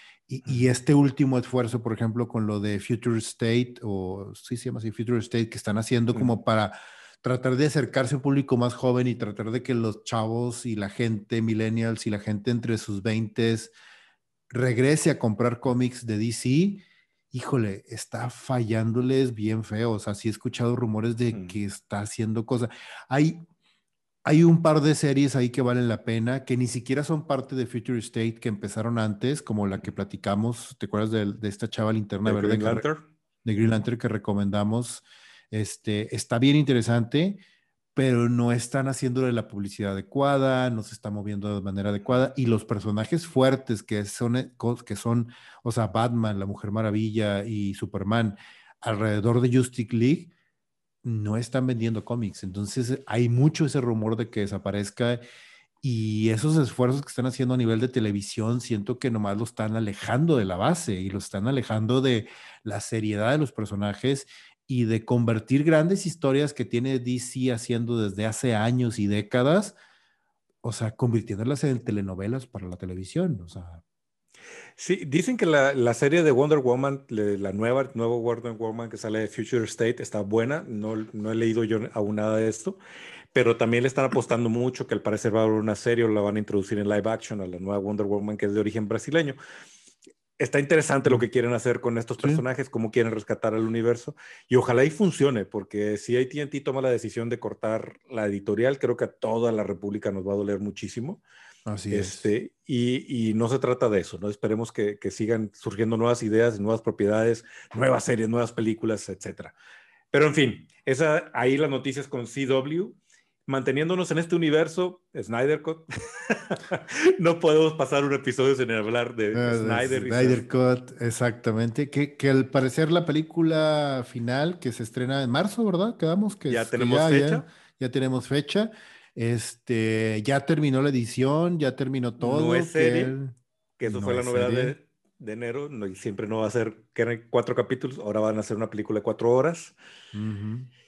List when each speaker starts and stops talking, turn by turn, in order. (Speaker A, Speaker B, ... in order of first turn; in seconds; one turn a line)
Speaker A: 0.3-13.8
Speaker A: 14.5-23.4
Speaker B: 21.3-21.6
Speaker A: 24.2-32.8
Speaker B: 32.2-33.0
Speaker A: 33.5-37.4
Speaker A: 38.0-50.3
Speaker A: 51.0-55.2
Speaker A: 55.8-69.8
Speaker A: 70.6-73.8
Speaker B: 74.8-82.8
Speaker B: 83.3-89.4
Speaker B: 90.4-101.2
Speaker A: 101.7-102.3
Speaker B: 101.9-109.5
Speaker B: 110.1-120.4
Speaker A: 119.3-133.3
Speaker B: 126.5-127.5
Speaker B: 132.2-133.2
Speaker B: 133.8-139.8
Speaker A: 133.9-134.7
Speaker A: 140.1-140.7